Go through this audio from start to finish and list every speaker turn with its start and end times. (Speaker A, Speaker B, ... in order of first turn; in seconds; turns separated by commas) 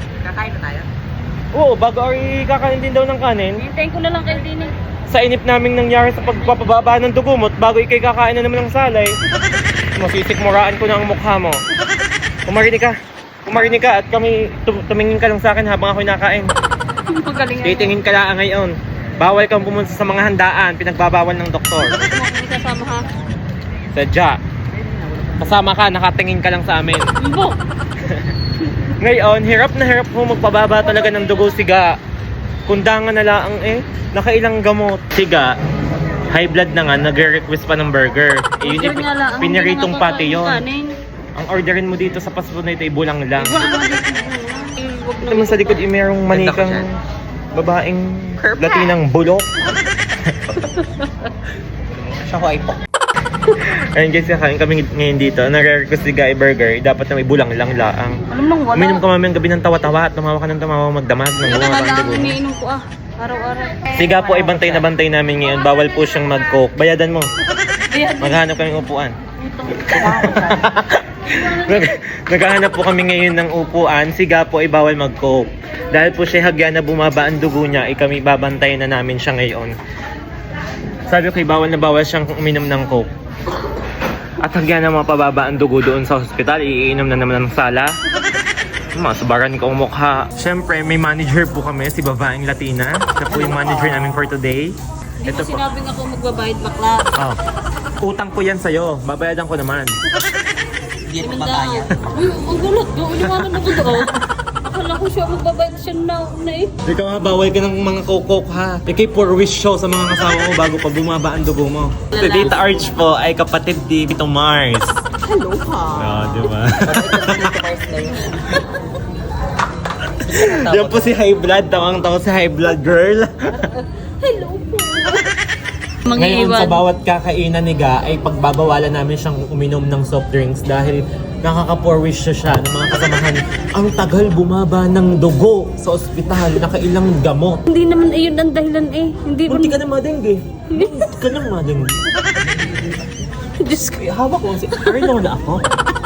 Speaker A: 0.2-0.9, Speaker B: 1.5-3.6, Speaker C: 3.6-4.7, Speaker B: 5.1-9.2, Speaker B: 10.0-11.6, Speaker B: 12.4-12.9, Speaker B: 13.4-16.5, Speaker C: 17.1-17.9, Speaker B: 17.6-21.9, Speaker C: 22.0-23.1, Speaker B: 23.9-24.4, Speaker B: 25.4-27.1, Speaker C: 27.2-27.6, Speaker C: 28.6-28.9, Speaker B: 29.0-31.9, Speaker B: 32.7-35.5, Speaker B: 36.3-40.6, Speaker C: 38.6-40.9, Speaker B: 41.4-43.6, Speaker C: 43.4-45.9, Speaker B: 45.2-47.0, Speaker A: 46.3-46.9, Speaker B: 47.5-49.5, Speaker A: 48.4-48.9, Speaker C: 50.6-51.3, Speaker A: 51.9-52.8, Speaker B: 53.5-58.2, Speaker C: 58.3-59.0, Speaker B: 58.7-62.4, Speaker C: 61.4-64.8, Speaker B: 63.9-67.3, Speaker C: 67.9-68.4, Speaker B: 68.2-69.1, Speaker C: 69.4-70.7, Speaker B: 69.7-79.7, Speaker C: 71.3-71.9, Speaker B: 81.1-83.1, Speaker B: 84.4-87.9, Speaker B: 89.0-95.6, Speaker A: 93.3-94.2, Speaker C: 95.2-97.1, Speaker B: 98.0-100.0, Speaker A: 101.1-101.9, Speaker C: 101.2-106.7, Speaker B: 103.2-103.9, Speaker B: 106.8-115.0, Speaker C: 112.1-112.7, Speaker A: 115.2-118.6, Speaker B: 116.0-117.5, Speaker B: 120.2-123.3, Speaker A: 120.2-121.2, Speaker C: 123.5-125.3, Speaker C: 126.1-126.8, Speaker B: 126.1-137.6, Speaker C: 137.7-139.8, Speaker B: 139.5-141.9, Speaker C: 140.7-141.1, Speaker A: 142.4-143.1, Speaker C: 143.6-144.1, Speaker B: 144.0-145.6, Speaker C: 144.7-145.1